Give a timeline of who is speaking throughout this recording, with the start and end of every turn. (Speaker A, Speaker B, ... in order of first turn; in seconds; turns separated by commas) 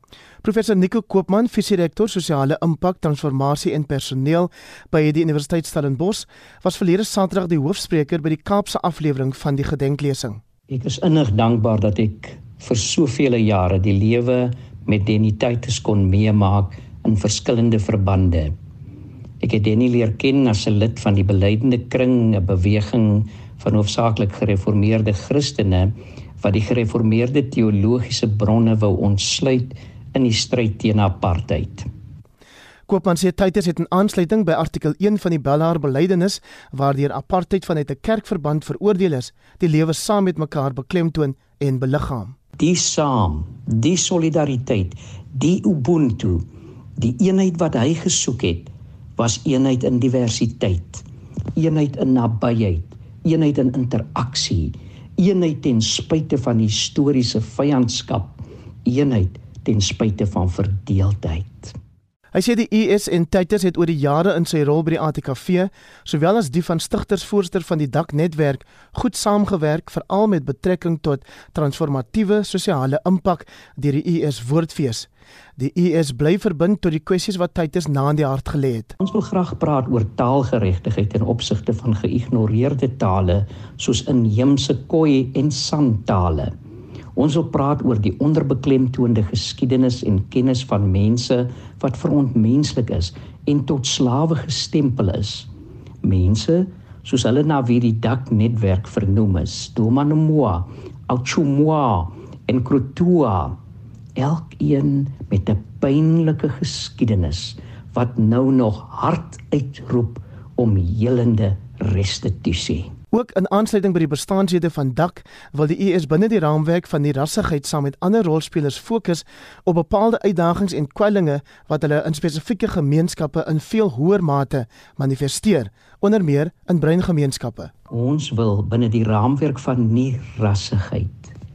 Speaker A: 0.4-10.4, Speaker B: 10.7-18.5, Speaker B: 19.4-31.9, Speaker A: 32.9-42.4, Speaker B: 42.6-46.5, Speaker B: 47.0-51.0, Speaker B: 51.5-61.7, Speaker A: 62.3-79.0, Speaker B: 79.0-86.5, Speaker B: 87.2-95.5, Speaker B: 96.0-103.6, Speaker B: 104.2-112.9, Speaker A: 113.1-127.7, Speaker B: 127.9-131.3